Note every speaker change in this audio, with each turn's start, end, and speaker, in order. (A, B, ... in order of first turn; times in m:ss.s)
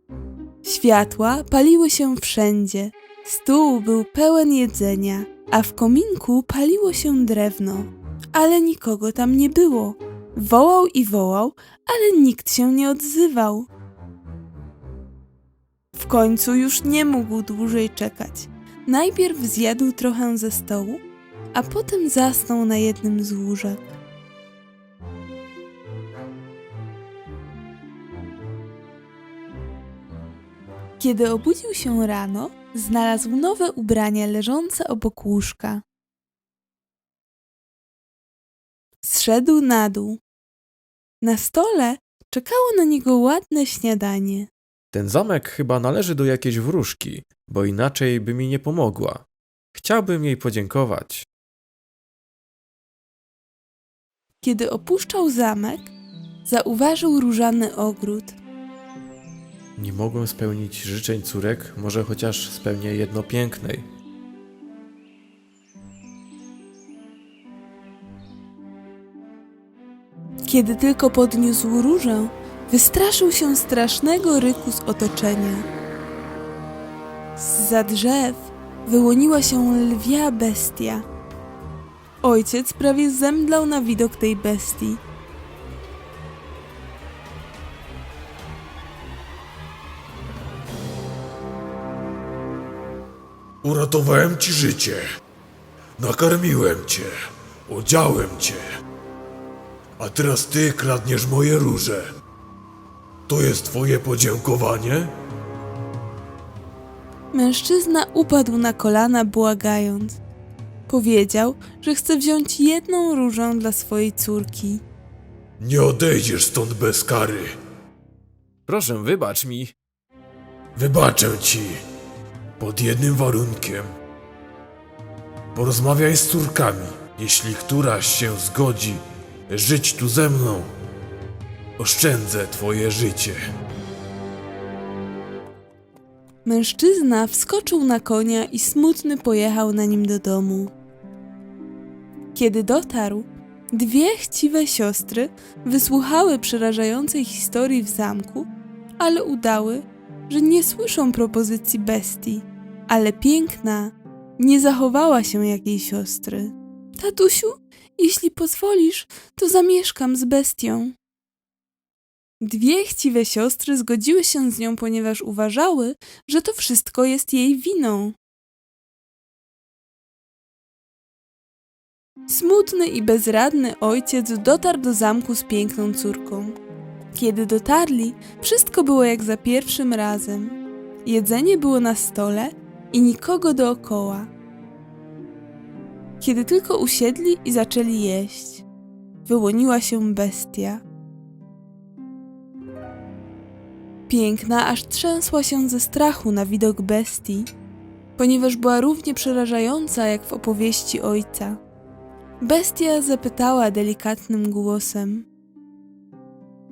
0:00.6-0:13.7 A
0:16.0-0:21.0 A
0:21.5-0:23.9 A
0:31.0-0:35.8 A
0:39.0-0:40.2 A
0:41.2-0:44.5 A
0:44.9-0:51.2 B
0:54.4-0:55.9 A
0:56.4-0:58.4 A
0:59.8-1:03.9 B
1:10.4-1:15.6 A
1:17.4-1:21.0 A
1:22.2-1:25.0 A
1:33.6-1:35.1 C
1:36.0-1:37.1 C
1:37.7-1:38.6 C
1:40.0-1:42.0 C
1:43.3-1:45.1 C
1:47.3-1:50.2 A
1:50.9-1:54.8 A
1:55.6-1:57.6 C
1:58.7-1:59.7 B
2:00.8-2:01.8 C
2:02.6-2:03.9 C
2:05.6-2:10.7 C
2:11.8-2:13.4 C
2:16.4-2:20.7 A
2:22.3-2:41.0 A
2:42.4-2:48.2 A
2:52.3-2:56.6 A
2:57.1-3:04.3 A
3:06.2-3:08.6 A
3:09.3-3:10.8 A
3:14.1-3:17.5 A
3:18.2-3:21.6 A
3:22.4-3:25.3 A